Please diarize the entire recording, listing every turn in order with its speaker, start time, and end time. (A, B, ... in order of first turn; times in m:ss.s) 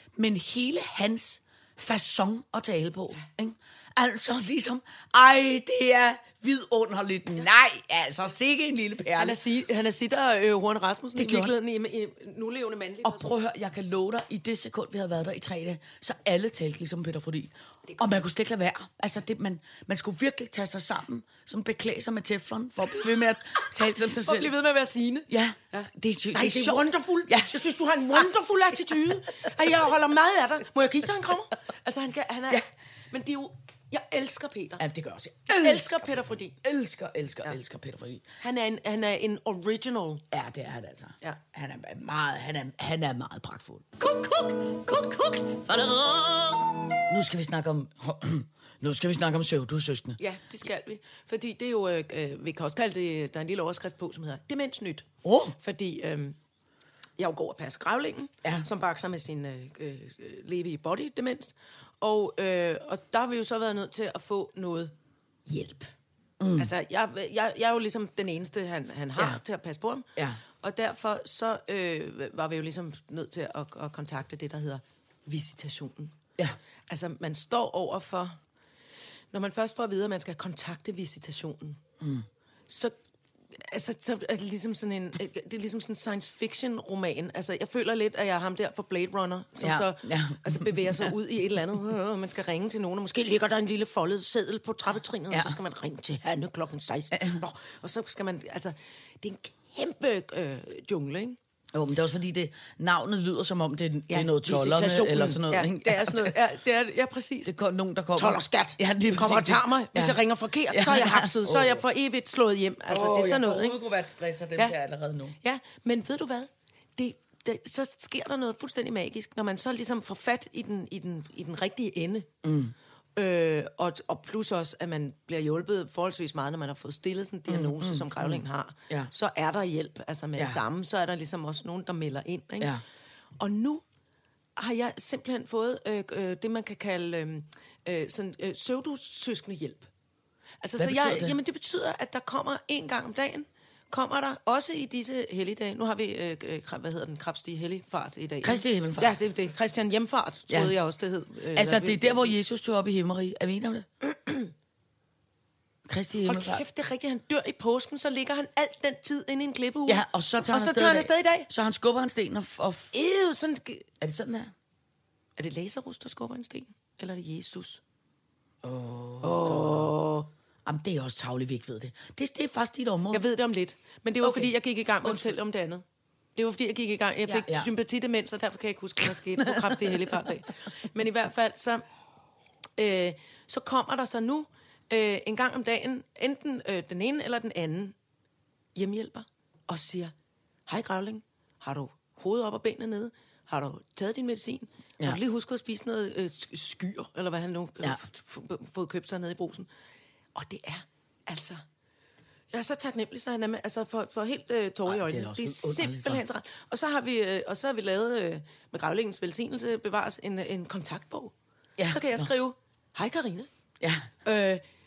0:00.1-0:09.4 A
0:09.1-0:13.3 B
0:11.2-0:11.5 A
0:13.0-0:24.5 A
0:17.9-0:18.1 B
0:24.1-0:34.8 B
0:25.3-0:27.6 A
0:34.8-0:38.2 A
0:35.5-0:36.6 B
0:38.4-0:40.2 B
0:40.3-0:43.9 A
0:44.0-0:46.8 C
0:47.1-0:50.2 A
0:50.2-0:56.4 B
0:55.2-0:55.6 A
0:57.2-1:04.9 B
1:05.5-1:05.9 B
1:06.4-1:06.7 A
1:06.6-1:10.1 B
1:10.6-1:16.2 B
1:16.9-1:18.4 B
1:19.3-1:21.8 B
1:22.0-1:22.3 A
1:22.7-1:23.0 B
1:23.6-1:41.4 B
1:29.6-1:31.1 A
1:35.3-1:35.6 A
1:37.1-1:37.4 A
1:41.7-1:46.4 A
1:44.1-1:47.5 B
1:47.4-1:50.2 A
1:48.2-1:53.8 B
1:50.7-1:51.8 A
1:52.9-1:55.4 A
1:55.4-2:02.3 B
2:02.4-2:02.7 A
2:03.2-2:12.8 B
2:07.5-2:09.1 A
2:13.4-2:13.8 B
2:14.6-2:19.9 B
2:20.6-2:32.3 B
2:20.8-2:21.3 A
2:28.4-2:29.1 A
2:30.5-2:30.7 A
2:31.5-2:33.9 A
2:34.1-2:34.5 B
2:35.8-2:36.6 A
2:36.2-2:41.5 B
2:39.8-2:42.9 A
2:42.9-2:43.9 B
2:44.0-2:44.5 A
2:45.4-2:47.8 B
2:48.6-2:49.9 A
2:49.2-2:50.3 B
2:50.6-2:53.2 A
2:53.1-2:55.8 B
2:54.2-2:54.5 A
2:55.0-2:55.3 A
2:56.4-3:01.8 B
2:57.2-2:57.7 A
2:59.4-3:00.2 A
3:02.8-3:07.9 B
3:08.7-3:10.1 B
3:10.7-3:19.7 B
3:20.3-3:21.6 B
3:22.5-3:31.3 B
3:24.9-3:26.2 A
3:31.8-3:32.3 A
3:31.9-3:33.5 B
3:33.8-3:34.1 A
3:34.2-3:34.6 B